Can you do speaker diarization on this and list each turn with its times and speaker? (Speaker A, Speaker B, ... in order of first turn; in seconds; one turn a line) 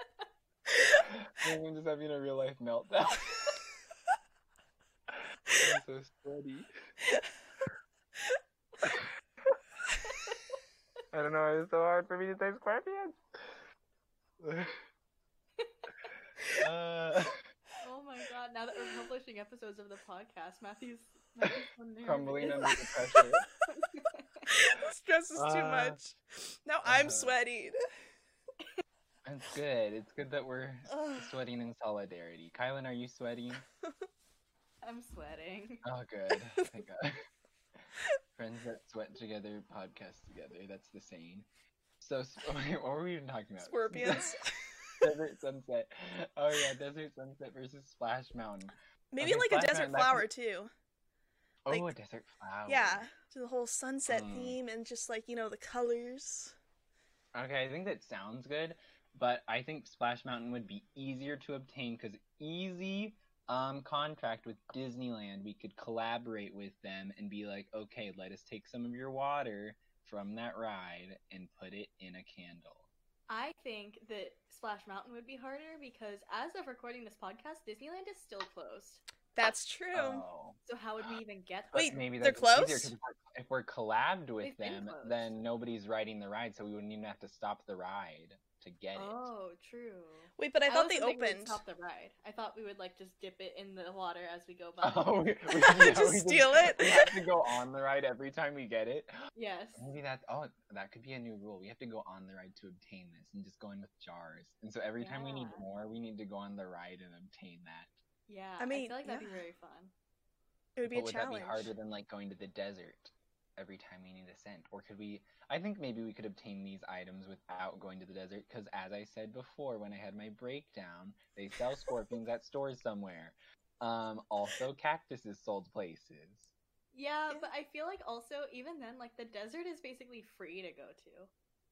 Speaker A: 0.9-3.5
Speaker A: 5.1-6.7
Speaker A: 8.8-9.6
Speaker B: 10.1-10.6
Speaker A: 11.1-13.6
Speaker A: 14.4-14.8
Speaker B: 15.6-15.9
Speaker A: 16.6-17.4
Speaker B: 17.8-24.5
Speaker A: 22.0-23.5
Speaker C: 24.5-27.8
Speaker A: 25.4-26.0
Speaker A: 26.8-27.4
Speaker A: 29.2-33.6
Speaker C: 30.9-31.3
Speaker B: 34.8-35.8
Speaker A: 35.8-37.2
Speaker A: 38.4-41.5
Speaker A: 42.0-44.4
Speaker C: 43.6-45.0
Speaker A: 45.0-50.3
Speaker C: 49.1-50.7
Speaker A: 51.6-53.1
Speaker C: 52.7-56.5
Speaker A: 54.1-54.6
Speaker A: 57.4-72.9
Speaker B: 73.3-79.0
Speaker C: 79.4-80.2
Speaker A: 79.9-81.1
Speaker B: 80.6-82.1
Speaker C: 81.7-82.9
Speaker A: 81.8-89.3
Speaker B: 84.4-85.3
Speaker B: 89.0-95.3
Speaker C: 90.4-91.6
Speaker A: 94.8-99.1
Speaker C: 95.7-97.2
Speaker B: 99.3-99.8
Speaker A: 99.8-107.9
Speaker B: 105.0-105.7
Speaker B: 108.3-109.9
Speaker C: 108.6-109.4
Speaker C: 110.8-111.7
Speaker A: 110.9-126.5
Speaker B: 126.9-131.3